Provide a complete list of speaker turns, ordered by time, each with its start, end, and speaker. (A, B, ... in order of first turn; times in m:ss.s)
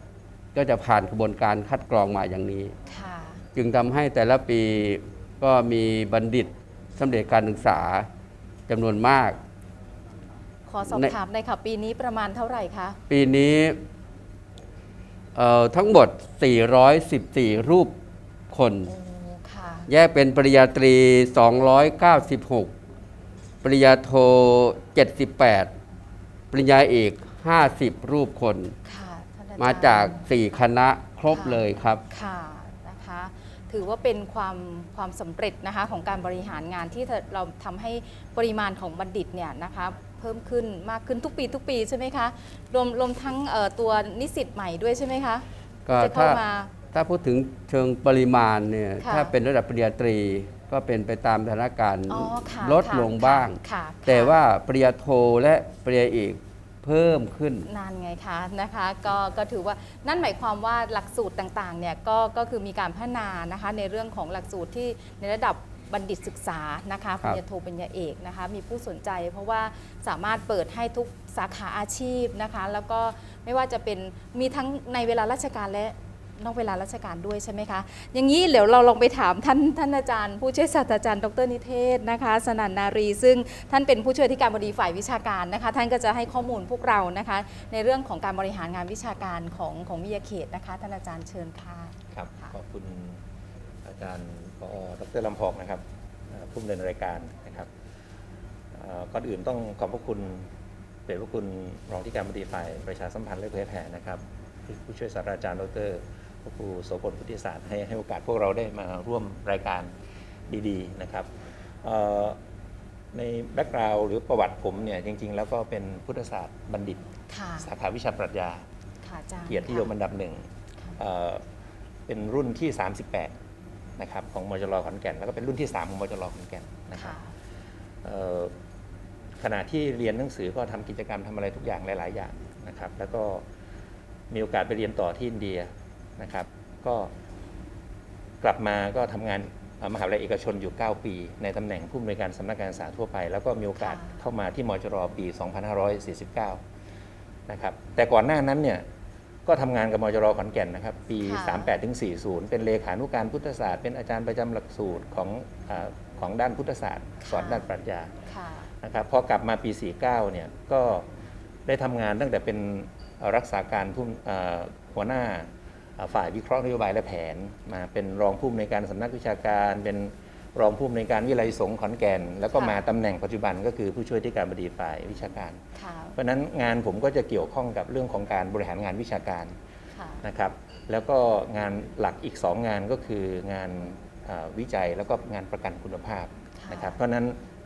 0:00.5-0:02.7 A
0:02.9-0:03.4 B
0:03.5-0:08.1 A
0:08.7-0:09.4 A
0:10.7-0:13.0 B
0:10.9-0:11.1 A
0:13.1-0:13.8 A
0:15.3-0:17.9 A
0:18.5-0:18.9 A
0:18.8-0:19.9 B
0:19.9-0:22.7 A
0:23.6-0:25.7 A
0:26.5-0:28.7 A
0:28.8-0:30.2 B
0:29.6-0:32.0 A
0:31.3-0:45.4 B
0:45.9-0:57.7 A
0:46.0-0:46.7 B
0:49.0-0:49.3 B
0:52.1-0:54.4 B
0:57.6-1:32.5 B
1:32.1-1:33.2 C
1:33.8-1:37.7 C
1:38.7-1:40.5 C
1:41.1-1:49.9 C
1:50.5-1:51.3 C
1:51.8-1:52.4 C
1:53.1-1:57.0 C
1:57.3-1:57.7 B
1:57.6-1:58.6 C
1:59.0-1:59.9 B
1:59.5-2:00.4 C
2:01.0-2:01.4 C
2:02.1-2:03.3 C
2:04.0-2:07.2 C
2:07.0-2:07.3 B
2:08.0-2:08.5 C
2:09.4-2:13.4 C
2:14.3-2:17.1 C
2:18.4-2:26.6 C
2:23.8-2:24.2 B
2:27.5-2:28.8 C
2:29.4-2:38.1 C
2:31.2-2:31.7 B
2:37.2-2:37.7 B
2:38.3-2:38.7 B
2:38.8-2:41.1 C
2:41.6-2:55.6 C
2:55.8-2:56.2 B
2:56.2-2:59.5 C
3:00.0-3:00.2 B
3:00.2-3:07.4 C
3:06.6-3:07.0 B